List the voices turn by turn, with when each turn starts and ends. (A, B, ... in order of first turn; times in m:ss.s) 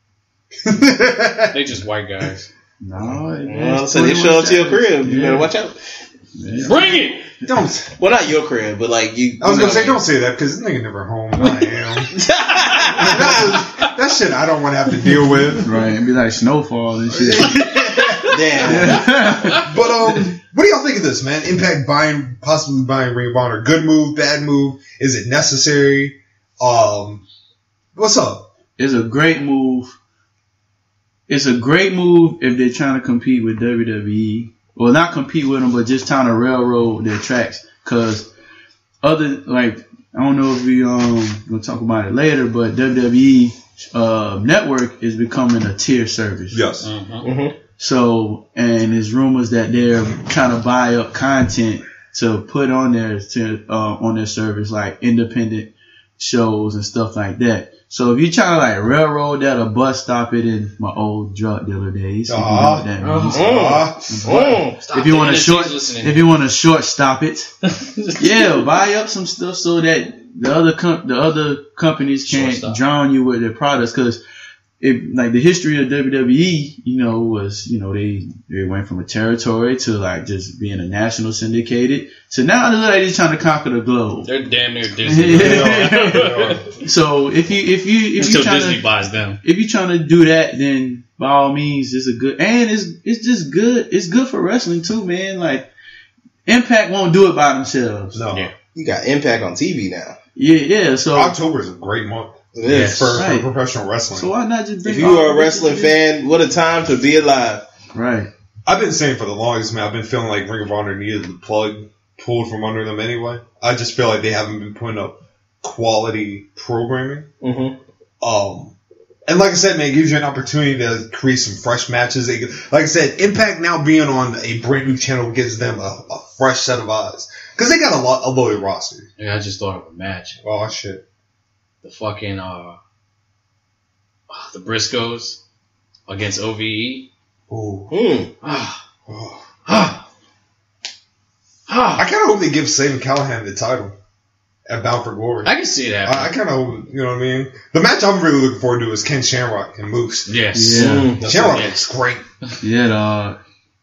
0:00.6-0:01.6 A
0:01.5-0:02.5 B
0:02.8-0:05.5 C
0:03.4-0:05.8 D
0:06.4-0:06.8 C
0:06.6-0:07.2 B
0:06.7-0:07.9 A
0:08.0-0:10.0 D
0:09.4-0:12.2 A
0:12.1-0:13.5 D
0:13.0-0:15.7 A
0:15.6-0:17.6 C
0:17.1-0:27.2 A
0:17.7-0:18.2 B
0:18.2-0:19.1 D
0:18.6-0:19.6 C
0:19.3-0:19.6 B
0:27.9-0:28.5 A
0:28.8-0:30.0 C
0:31.3-0:38.3 C
0:39.0-0:46.6 C
0:46.5-0:46.9 A
0:46.8-0:47.3 B
0:47.2-0:47.5 D
0:47.8-1:07.5 C
1:02.3-1:04.2 A
1:03.0-1:06.3 B
1:03.3-1:04.8 D
1:07.7-1:08.6 B
1:08.2-1:14.2 C
1:12.2-1:12.8 B
1:14.8-1:24.3 C
1:24.2-1:26.6 B
1:25.0-1:28.8 C
1:25.2-1:26.7 A
1:28.2-1:29.4 B
1:29.4-1:35.7 C
1:36.4-1:38.2 C
1:38.1-1:38.5 A
1:38.7-1:40.2 D
1:40.4-1:41.4 C
1:41.1-1:44.3 A
1:42.5-1:43.2 D
1:42.7-1:43.1 B
1:43.1-1:43.5 C
1:44.1-1:46.0 C
1:44.8-1:47.6 D
1:47.9-1:48.3 C
1:48.6-1:57.3 A
1:57.4-1:57.8 D
1:58.2-1:58.8 A
1:59.3-2:09.1 A
2:09.2-2:10.4 B
2:10.4-2:11.0 A
2:11.8-2:12.8 B
2:14.3-2:15.4 B
2:16.1-2:17.1 B
2:17.5-2:17.9 A
2:17.9-2:18.3 D
2:18.4-2:18.8 B
2:19.1-2:19.6 A
2:19.6-2:20.0 B
2:21.7-2:22.1 B
2:22.0-2:23.9 A
2:24.7-2:25.5 A
2:25.4-2:26.3 B
2:26.0-2:30.3 A
2:30.3-2:31.8 B
2:30.5-2:31.1 C
2:30.8-2:31.7 D
2:31.2-2:32.2 A
2:32.6-2:33.4 C